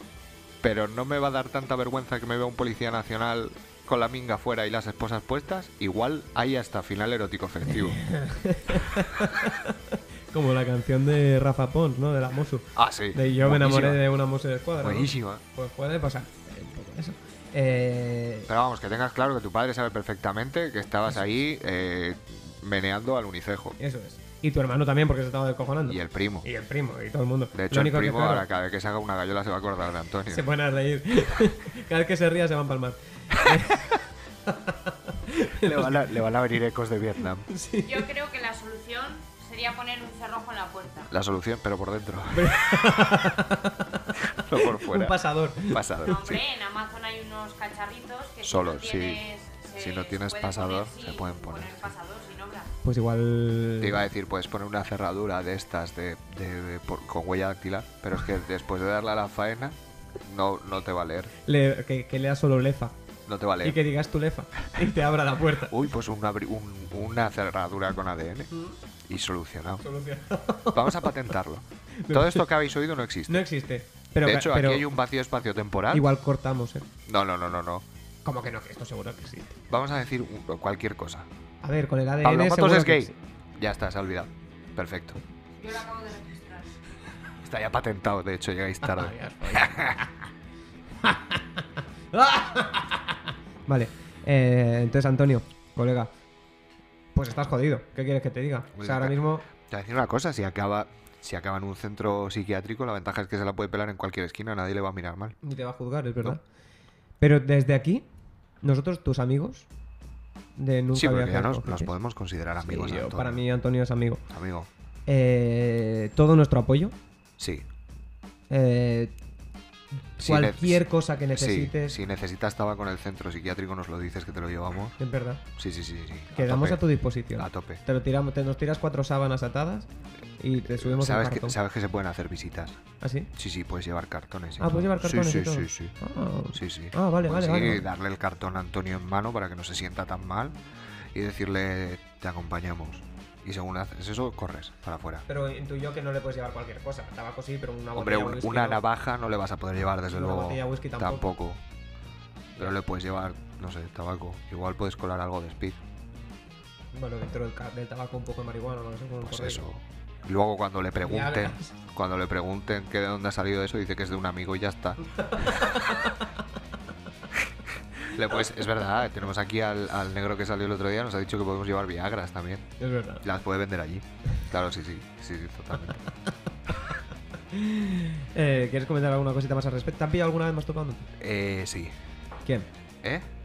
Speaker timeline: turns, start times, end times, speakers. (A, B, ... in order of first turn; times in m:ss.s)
0:00.6-0:08.1 A
0:07.8-0:18.5 B
0:12.7-0:14.0 A
0:14.8-0:15.4 A
0:18.5-0:23.8 A
0:23.8-0:28.4 B
0:25.8-0:26.5 A
0:27.5-0:30.5 A
0:30.3-0:36.1 B
0:35.6-0:37.5 A
0:37.5-0:38.1 B
0:37.8-0:41.1 C
0:41.1-0:43.3 A
0:42.3-0:46.3 B
0:44.2-0:46.4 A
0:46.0-0:52.7 C
0:48.4-0:51.9 A
0:52.8-0:54.1 B
0:53.8-1:01.3 A
1:01.4-1:03.0 B
1:03.3-1:03.8 A
1:03.6-1:05.8 B
1:05.6-1:08.5 A
1:08.5-1:08.8 B
1:09.0-1:09.8 A
1:09.8-1:11.2 B
1:10.7-1:13.4 A
1:12.0-1:12.4 B
1:13.3-1:14.8 B
1:14.2-1:16.1 A
1:15.9-1:16.9 B
1:17.0-1:17.8 A
1:18.2-1:19.6 B
1:19.7-1:21.3 A
1:21.6-1:23.1 B
1:22.2-1:25.2 A
1:25.6-1:26.8 C
1:27.4-1:30.1 A
1:28.8-1:30.1 B
1:31.0-1:36.1 B
1:37.1-1:39.4 B
1:38.7-1:45.4 A
1:45.4-1:46.4 B
1:47.2-1:48.0 B
1:48.6-1:49.7 B
1:50.6-1:51.9 B
1:50.9-1:53.4 A
1:52.6-1:54.2 B
1:54.3-1:54.7 A
1:55.1-1:56.9 B
1:57.4-1:57.6 A
1:58.5-1:59.1 B
2:00.2-2:02.0 B
2:00.2-2:05.0 A
2:05.0-2:05.4 B
2:05.6-2:06.8 A
2:06.3-2:09.9 B
2:07.4-2:07.8 A
2:10.4-2:11.6 B
2:10.6-2:12.8 A
2:13.0-2:13.3 B
2:13.3-2:15.9 A
2:14.6-2:17.8 B
2:16.5-2:20.6 A
2:21.1-2:25.2 A
2:25.3-2:28.8 B
2:27.9-2:31.6 A
2:30.1-2:31.3 B
2:32.6-2:35.8 A
2:36.9-2:39.6 B
2:39.2-2:45.8 A
2:41.0-2:41.7 B
2:45.2-2:46.2 B
2:48.0-2:52.6 A
2:52.8-2:53.2 B
2:53.2-2:56.0 A
2:57.5-3:01.1 B
3:01.2-3:01.9 A